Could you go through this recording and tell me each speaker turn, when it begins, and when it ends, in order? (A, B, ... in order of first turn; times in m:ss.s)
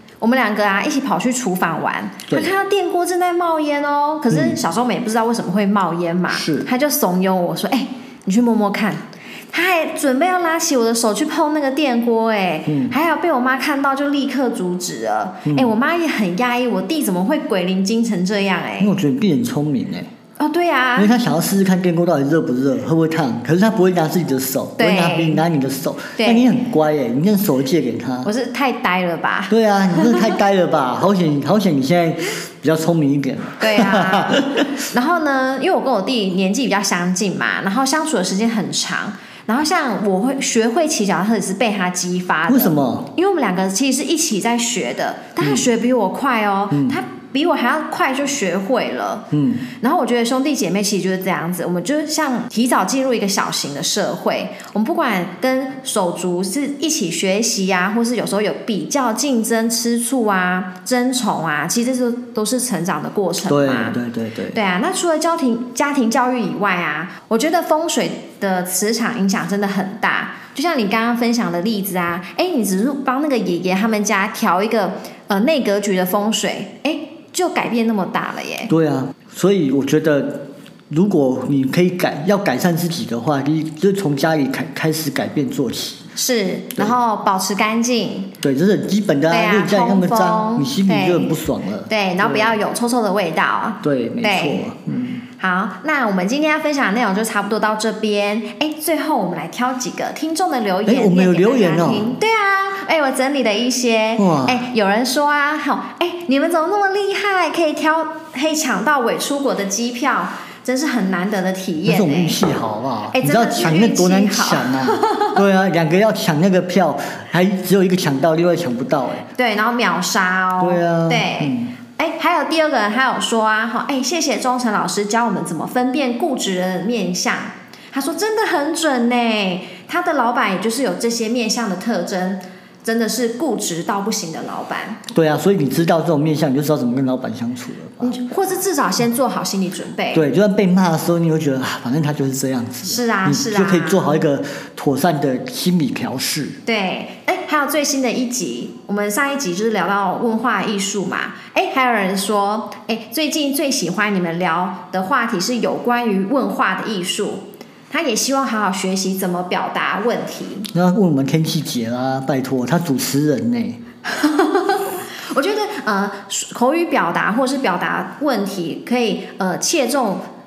0:00.2-0:19.0 A
0:04.3-0:04.6 B
0:06.3-0:06.7 B
0:12.7-0:12.9 B
0:15.4-0:15.7 B
0:18.8-0:20.1 B
0:20.4-0:21.1 A
0:21.0-0:28.3 B
0:24.8-0:25.4 A
0:26.2-0:26.5 A
0:28.2-0:30.4 A
0:29.5-0:34.8 B
0:33.6-1:04.0 A
0:42.5-0:43.1 B
0:46.7-0:47.0 B
0:49.3-0:49.6 B
1:03.4-1:04.6 B
1:04.5-1:18.7 A
1:18.7-1:26.0 B
1:26.2-1:28.3 A
1:28.4-1:32.6 B
1:29.3-1:34.7 A
1:33.8-1:35.2 B
1:35.4-1:52.4 A
1:40.8-1:42.2 B
1:44.2-1:44.6 B
1:51.9-1:59.2 B
1:53.1-1:55.4 A
1:59.4-2:15.0 A
2:00.6-2:01.7 B
2:15.1-2:18.2 B
2:18.0-2:20.2 A
2:20.1-2:26.6 B
2:22.8-2:24.2 A
2:26.6-2:40.7 A
2:40.7-2:43.8 B
2:44.0-2:50.2 A